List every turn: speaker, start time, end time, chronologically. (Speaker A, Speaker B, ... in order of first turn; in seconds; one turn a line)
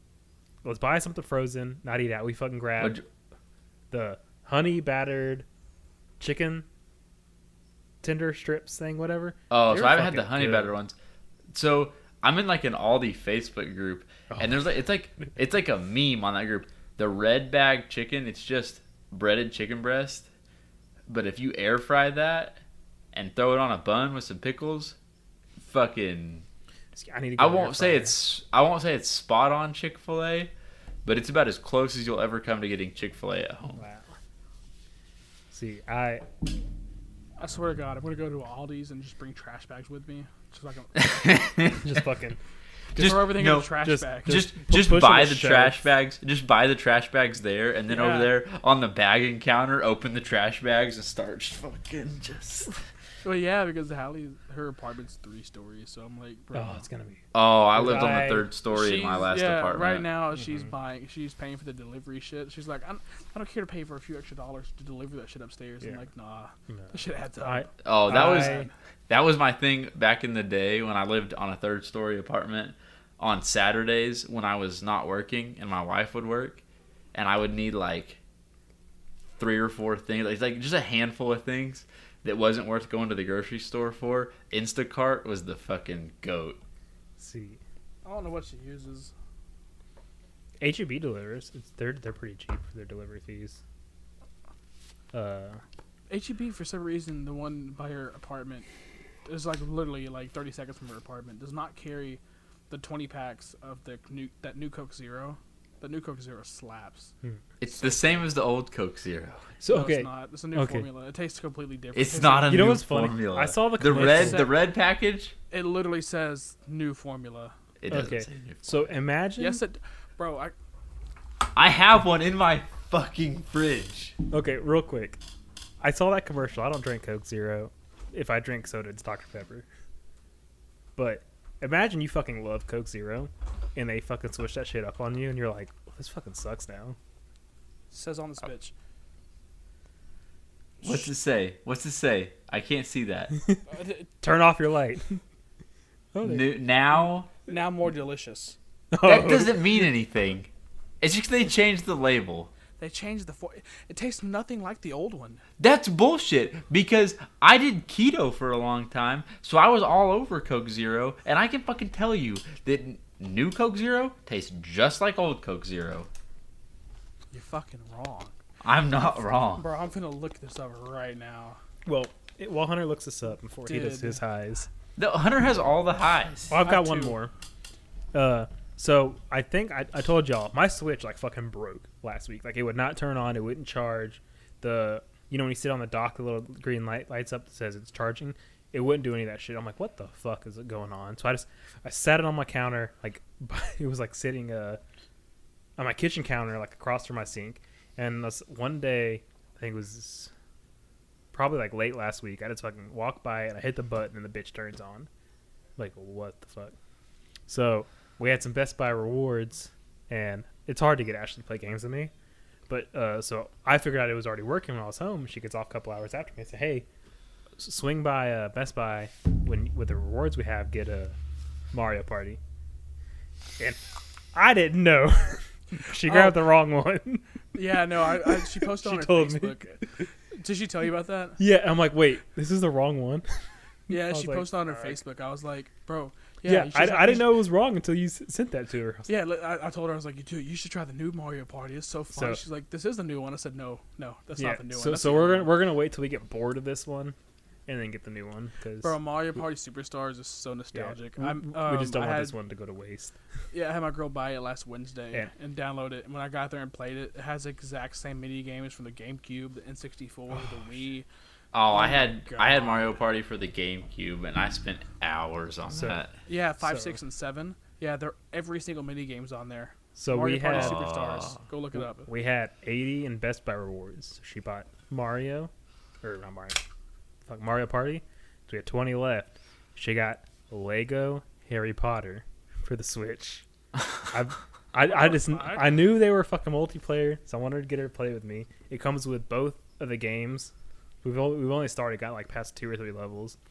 Speaker A: 0.6-3.0
Speaker B: 2.8-3.0
Speaker A: 3.9-5.5
Speaker A: 6.2-6.7
Speaker A: 8.0-10.7
Speaker B: 9.5-10.9
Speaker B: 11.5-20.3
Speaker B: 21.1-22.6
Speaker B: 23.1-24.9
Speaker B: 25.6-26.4
Speaker A: 26.9-28.1
Speaker B: 27.4-30.5
Speaker B: 31.0-33.8
Speaker A: 33.8-34.1
Speaker A: 35.5-36.2
Speaker C: 37.4-41.1
Speaker B: 40.9-41.9
Speaker A: 41.8-42.4
Speaker A: 42.9-45.8
Speaker C: 43.0-44.4
Speaker B: 43.0-52.7
Speaker C: 47.9-48.3
Speaker C: 53.2-56.8
Speaker A: 56.5-58.5
Speaker B: 57.3-60.0
Speaker C: 58.7-68.7
Speaker A: 66.7-68.7
Speaker B: 67.8-76.6
Speaker B: 77.1-78.2
Speaker B: 79.4-86.6
Speaker A: 87.2-87.6
Speaker C: 88.0-89.1
Speaker A: 90.6-93.6
Speaker A: 95.1-95.6
Speaker C: 96.1-98.7
Speaker C: 99.2-107.1
Speaker B: 107.6-109.5
Speaker C: 107.7-108.2
Speaker A: 109.6-110.8
Speaker C: 109.7-112.7
Speaker B: 111.9-115.3
Speaker A: 112.5-114.5
Speaker C: 113.8-114.6
Speaker C: 115.5-117.5
Speaker B: 117.8-118.7
Speaker A: 117.9-119.6
Speaker C: 119.4-120.5
Speaker B: 121.5-124.1
Speaker A: 124.3-125.2
Speaker A: 125.8-129.7
Speaker A: 130.9-137.0
Speaker C: 137.9-138.7
Speaker C: 140.8-141.1
Speaker B: 140.8-143.3
Speaker C: 143.7-144.1
Speaker A: 144.2-145.2
Speaker A: 146.1-146.5
Speaker B: 146.2-147.3
Speaker C: 147.4-148.6
Speaker A: 148.9-149.6
Speaker B: 149.0-150.5
Speaker B: 151.0-152.5
Speaker C: 152.8-155.4
Speaker B: 155.6-166.1
Speaker C: 167.3-168.3
Speaker B: 168.6-169.6
Speaker C: 169.6-171.6
Speaker A: 171.8-174.7
Speaker C: 173.7-174.2
Speaker B: 175.0-176.5
Speaker A: 176.5-177.3
Speaker C: 176.5-177.2
Speaker A: 178.1-194.8
Speaker A: 195.8-200.3
Speaker A: 201.3-205.1
Speaker A: 205.8-206.7
Speaker A: 207.5-212.1
Speaker A: 212.7-216.8
Speaker A: 217.6-221.2
Speaker A: 221.7-222.4
Speaker A: 224.3-227.2
Speaker C: 226.0-226.4
Speaker C: 227.5-231.4
Speaker A: 228.1-229.9
Speaker A: 231.4-233.2
Speaker A: 233.9-235.0
Speaker C: 233.9-237.4
Speaker A: 236.4-239.1
Speaker C: 239.1-245.6
Speaker A: 242.1-242.4
Speaker A: 244.4-247.2
Speaker A: 247.7-249.0
Speaker C: 248.8-252.3
Speaker A: 250.7-253.1
Speaker C: 253.5-261.1
Speaker B: 261.5-266.1
Speaker C: 261.7-262.9
Speaker A: 265.7-266.0
Speaker C: 266.2-272.1
Speaker A: 266.6-266.9
Speaker A: 269.9-270.9
Speaker B: 270.5-271.4
Speaker A: 271.7-275.5
Speaker A: 276.0-276.6
Speaker A: 277.3-283.4
Speaker A: 284.1-293.4
Speaker C: 284.8-285.8